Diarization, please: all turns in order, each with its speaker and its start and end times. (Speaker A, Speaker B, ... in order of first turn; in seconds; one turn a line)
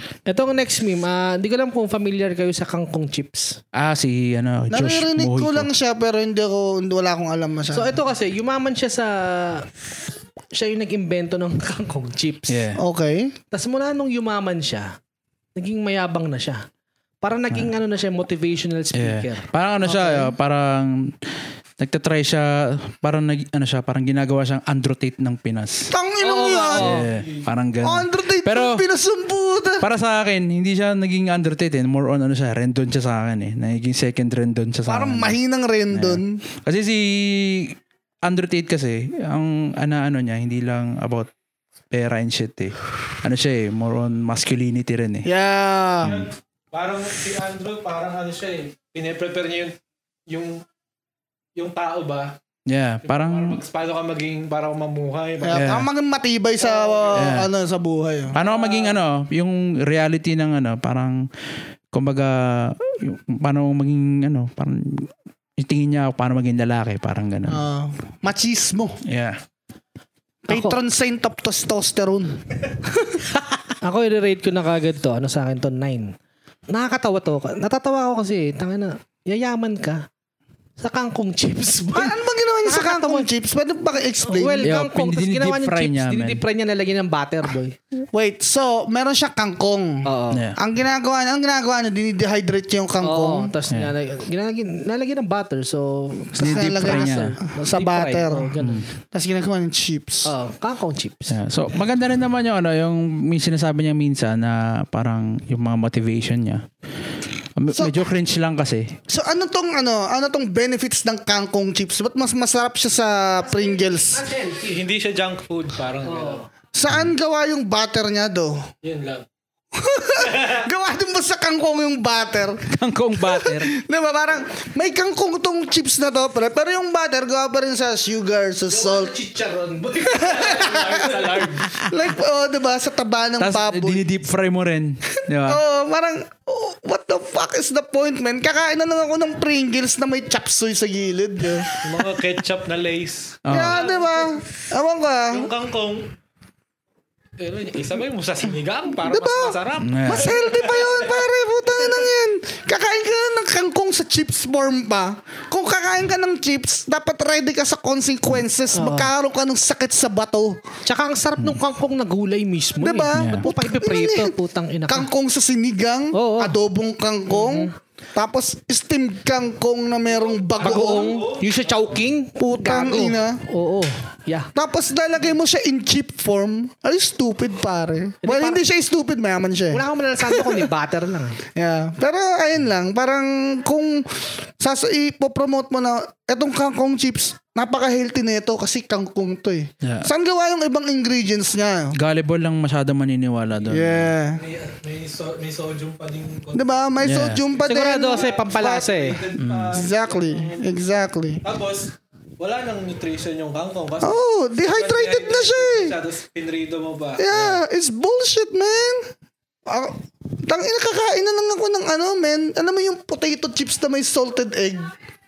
Speaker A: 0.3-3.6
Speaker B: 3.7-5.7
Speaker C: 4.7-8.0
Speaker A: 7.7-9.7
Speaker A: 10.5-12.6
Speaker B: 12.5-12.8
Speaker C: 12.8-13.3
Speaker A: 13.5-14.9
Speaker A: 15.6-16.6
Speaker A: 17.2-20.3
Speaker B: 18.9-21.2
Speaker B: 21.8-25.9
Speaker C: 25.9-27.1
Speaker A: 26.2-27.1
Speaker B: 26.8-28.8
Speaker D: 27.1-27.4
Speaker C: 27.8-29.9
Speaker B: 29.8-35.4
Speaker C: 34.9-36.4
Speaker B: 35.9-41.3
Speaker B: 41.9-45.3
Speaker C: 45.2-46.2
Speaker D: 46.0-49.8
Speaker D: 50.3-50.6
Speaker D: 51.6-52.4
Speaker B: 52.7-53.6
Speaker D: 53.0-55.7
Speaker C: 55.4-58.4
Speaker B: 55.5-55.9
Speaker D: 56.6-57.4
Speaker B: 57.1-57.5
Speaker B: 58.3-61.3
Speaker D: 58.4-59.0
Speaker B: 61.9-67.6
Speaker C: 67.5-69.0
Speaker B: 69.0-69.4
Speaker C: 70.5-72.5
Speaker A: 70.5-70.8
Speaker A: 73.8-76.1
Speaker A: 76.7-80.0
Speaker A: 80.8-83.3
Speaker C: 81.9-84.8
Speaker A: 84.2-87.8
Speaker B: 84.6-86.4
Speaker C: 88.1-93.5
Speaker A: 90.0-90.4
Speaker B: 90.3-90.6
Speaker A: 93.0-98.9
Speaker C: 96.3-100.3
Speaker B: 96.4-97.4
Speaker B: 98.6-98.9
Speaker A: 100.2-101.4
Speaker B: 101.3-106.7
Speaker B: 107.6-109.0
Speaker C: 109.1-114.2
Speaker A: 113.4-114.8
Speaker D: 114.6-116.5
Speaker A: 116.0-116.5
Speaker C: 116.7-118.7
Speaker D: 118.8-119.3
Speaker C: 119.8-122.7
Speaker D: 120.2-120.6
Speaker B: 122.7-123.7
Speaker C: 123.2-129.1
Speaker A: 128.7-131.8
Speaker C: 130.1-131.2
Speaker D: 130.3-131.6
Speaker C: 131.7-134.0
Speaker B: 133.4-135.6
Speaker C: 135.4-142.2
Speaker D: 141.8-144.4
Speaker B: 143.4-143.8
Speaker C: 143.5-145.5
Speaker D: 145.3-146.1
Speaker D: 147.4-151.2
Speaker C: 149.0-160.6
Speaker B: 149.8-150.3
Speaker A: 158.7-159.1
Speaker A: 160.8-165.1
Speaker C: 162.8-164.3
Speaker B: 163.2-163.4
Speaker C: 164.9-171.2
Speaker A: 166.1-166.6
Speaker A: 167.3-167.7
Speaker D: 170.2-172.0
Speaker A: 170.6-174.5
Speaker C: 172.4-173.4
Speaker C: 174.6-180.7
Speaker A: 178.2-178.6
Speaker A: 179.7-181.4
Speaker C: 181.6-191.9
Speaker B: 189.8-190.1
Speaker B: 191.9-194.1
Speaker C: 193.7-194.4
Speaker D: 194.3-196.7
Speaker C: 196.5-198.6
Speaker B: 197.0-197.4
Speaker D: 197.6-200.6
Speaker A: 197.6-199.2
Speaker B: 199.4-199.8
Speaker C: 199.7-201.4
Speaker D: 201.4-207.3
Speaker C: 204.0-206.0
Speaker C: 207.2-209.1
Speaker C: 209.7-214.9